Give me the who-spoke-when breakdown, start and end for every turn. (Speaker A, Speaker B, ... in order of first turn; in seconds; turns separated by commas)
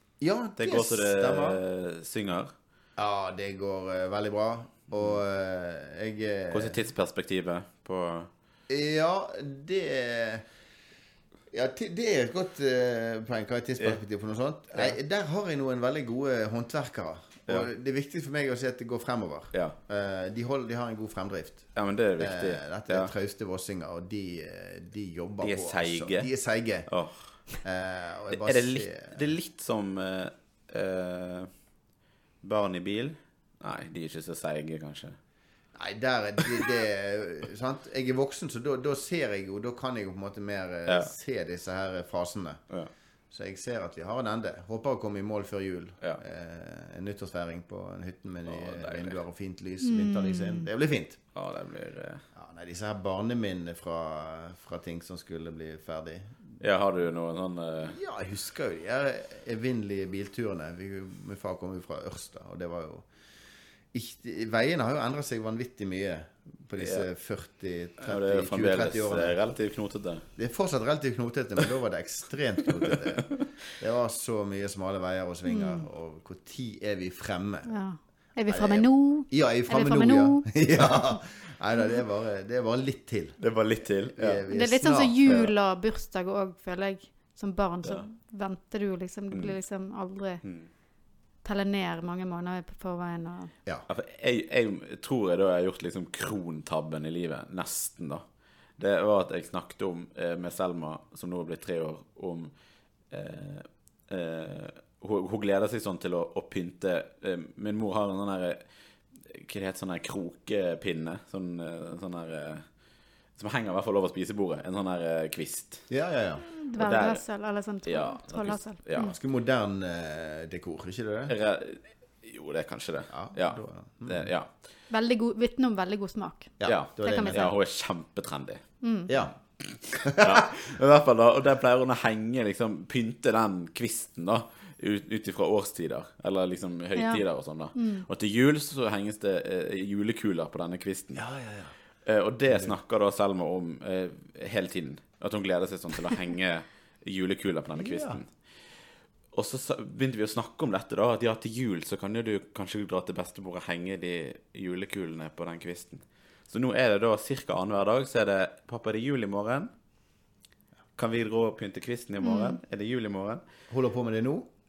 Speaker A: 0.2-1.6, Speaker B: 0.6-2.5, Speaker A: 3.0-6.8, Speaker B: 6.5-8.3, Speaker A: 8.7-10.4, Speaker A: 11.5-29.2, Speaker B: 14.7-15.0, Speaker B: 21.7-23.1, Speaker B: 25.4-27.5, Speaker B: 28.3-31.5, Speaker B: 32.4-35.2, Speaker A: 35.7-42.6, Speaker B: 40.9-41.1, Speaker A: 43.3-51.2, Speaker B: 48.5-49.2, Speaker C: 49.8-50.7, Speaker B: 51.3-52.2, Speaker A: 52.3-56.6, Speaker B: 56.6-58.0, Speaker A: 57.8-63.1, Speaker A: 63.9-69.5, Speaker B: 66.8-67.1, Speaker B: 68.0-70.2, Speaker A: 70.3-77.8, Speaker C: 75.4-75.9, Speaker C: 77.7-81.2, Speaker A: 78.5-85.5, Speaker B: 83.4-84.5, Speaker C: 84.5-90.4, Speaker B: 89.3-89.6, Speaker B: 90.4-90.7, Speaker C: 91.4-93.5, Speaker B: 93.9-98.2, Speaker B: 98.8-102.5, Speaker B: 103.1-112.8, Speaker B: 113.3-116.0, Speaker A: 115.9-116.5, Speaker C: 116.4-119.2, Speaker B: 116.7-119.2, Speaker A: 119.0-121.3, Speaker B: 121.3-124.6, Speaker A: 123.1-124.3, Speaker C: 124.9-127.5, Speaker A: 126.6-127.5, Speaker B: 126.6-128.8, Speaker C: 128.8-129.1, Speaker A: 129.1-129.4, Speaker B: 129.6-141.3, Speaker A: 130.0-130.4, Speaker C: 136.9-138.1, Speaker A: 141.1-141.8, Speaker B: 142.0-159.7, Speaker A: 142.5-142.8, Speaker A: 147.8-148.2, Speaker B: 161.0-163.4, Speaker C: 162.2-162.6, Speaker A: 163.7-164.5